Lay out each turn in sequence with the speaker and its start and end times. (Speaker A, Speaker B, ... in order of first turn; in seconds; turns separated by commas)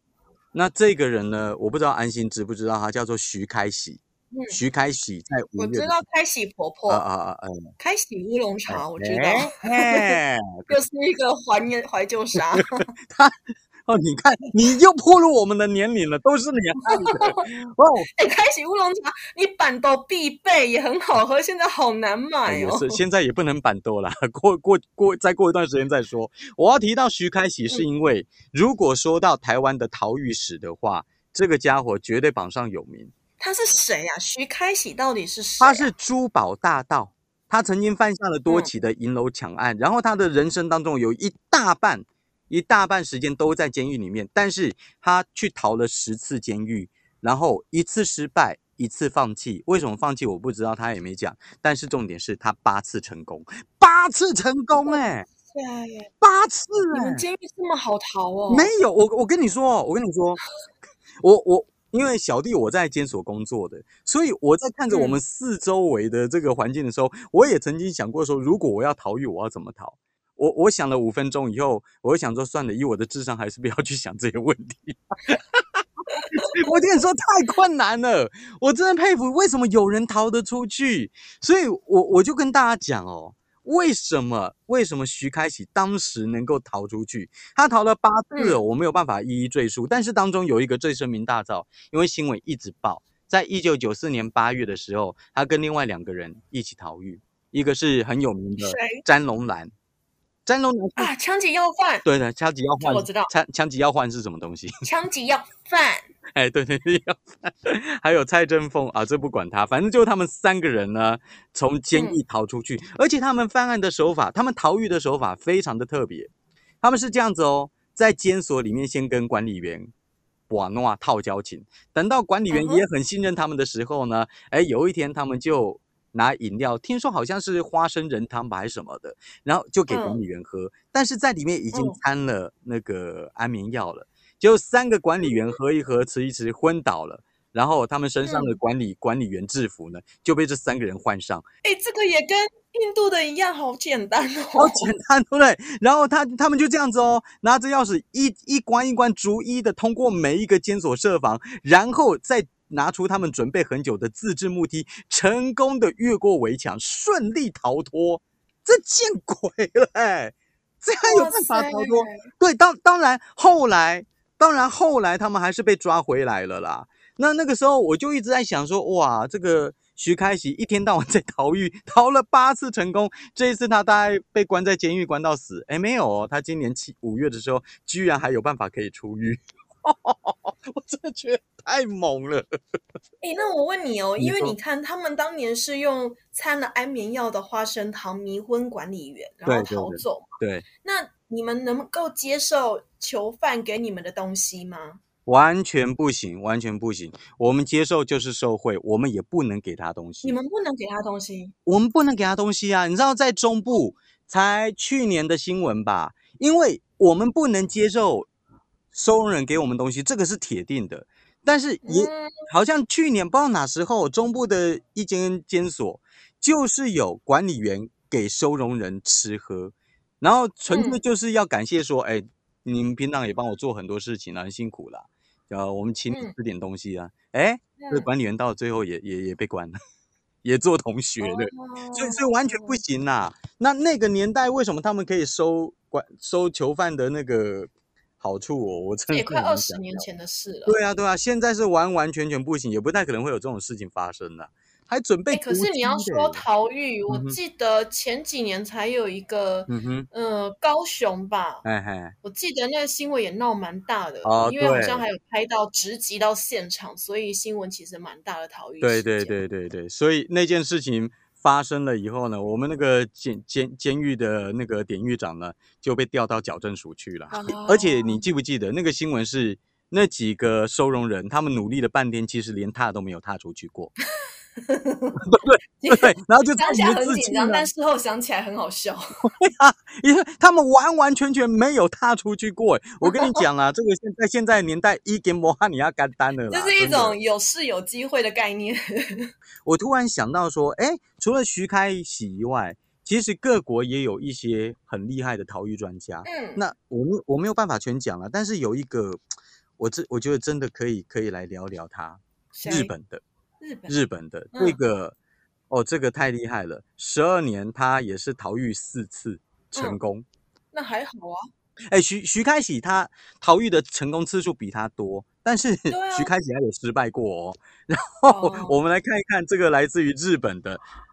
Speaker A: 0.5-6.0, Speaker B: 4.3-4.6, Speaker B: 5.5-7.0, Speaker A: 6.9-7.7, Speaker B: 7.8-10.1, Speaker A: 8.7-10.7, Speaker B: 10.7-12.8, Speaker A: 13.1-18.1, Speaker B: 16.9-17.4, Speaker B: 18.1-23.0, Speaker A: 22.5-33.1, Speaker B: 33.4-35.9, Speaker A: 35.6-55.3, Speaker B: 54.8-56.1, Speaker A: 56.2-57.2, Speaker B: 56.9-58.7, Speaker A: 58.5-60.4, Speaker A: 61.2-99.7, Speaker B: 64.9-65.2, Speaker B: 88.3-88.6, Speaker B: 98.6-99.0, Speaker A: 100.5-101.1, Speaker B: 101.0-102.0, Speaker A: 102.0-104.8, Speaker B: 102.8-103.3, Speaker B: 104.8-106.1, Speaker A: 106.3-116.3, Speaker B: 111.9-112.2, Speaker A: 116.8-119.9, Speaker A: 120.5-141.4, Speaker B: 122.5-122.8, Speaker B: 129.9-130.2, Speaker B: 131.7-132.0, Speaker B: 138.2-138.6, Speaker B: 141.6-144.9, Speaker A: 144.6-182.4, Speaker B: 161.0-162.2, Speaker B: 183.2-195.0, Speaker A: 184.2-184.5, Speaker A: 189.4-190.7, Speaker A: 195.2-200.4, Speaker B: 200.2-201.5, Speaker A: 201.6-208.3, Speaker A: 208.9-229.8, Speaker B: 211.8-212.4, Speaker B: 220.7-221.0, Speaker B: 227.8-228.1, Speaker A: 230.4-240.0, Speaker B: 231.2-232.8, Speaker B: 239.1-240.8, Speaker A: 240.7-246.4, Speaker B: 245.3-251.6, Speaker A: 247.1-247.4, Speaker A: 249.7-250.1, Speaker A: 251.6-252.1, Speaker B: 252.2-259.4, Speaker A: 254.2-255.0, Speaker A: 258.8-273.9, Speaker B: 267.3-268.2, Speaker B: 274.6-275.2, Speaker A: 275.2-277.7, Speaker B: 275.8-279.1, Speaker A: 279.2-287.2, Speaker B: 283.0-283.4, Speaker B: 286.5-289.3, Speaker A: 289.6-299.2, Speaker B: 296.2-296.6, Speaker A: 299.8-303.2, Speaker B: 302.5-302.9, Speaker B: 303.6-303.9, Speaker A: 303.9-305.1, Speaker B: 304.5-304.8, Speaker A: 305.7-310.2, Speaker B: 309.7-310.0, Speaker B: 310.7-311.4, Speaker A: 311.9-320.8, Speaker B: 315.9-316.3, Speaker B: 318.3-318.8